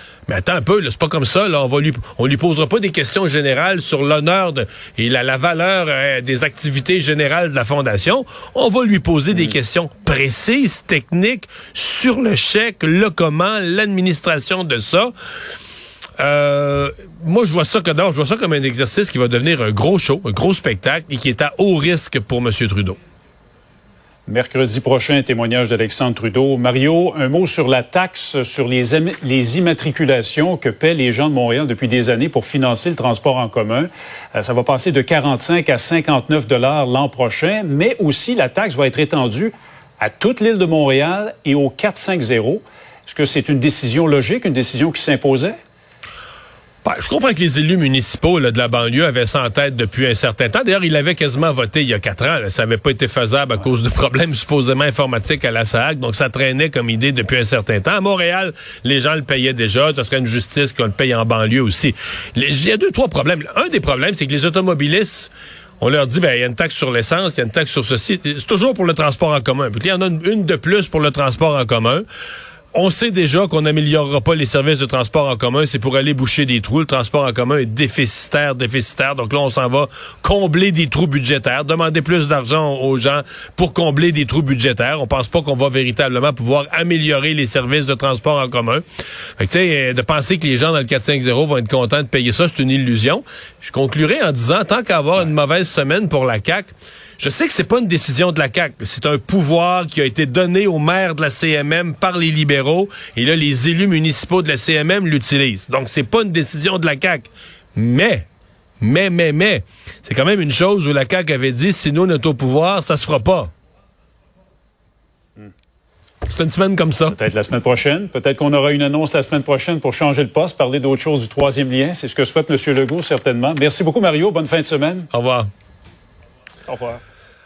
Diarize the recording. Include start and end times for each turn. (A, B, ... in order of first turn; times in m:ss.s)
0:00.3-0:15.1 A
0:16.2-0:23.0 A
0:24.2-0:45.6 B
0:46.8-1:12.0 A
1:12.7-1:28.8 A
1:29.4-1:48.2 A
1:48.8-1:53.5 A
1:56.3-1:57.2 A
1:57.1-2:05.1 B
2:05.1-2:05.5 A
2:06.7-2:07.0 B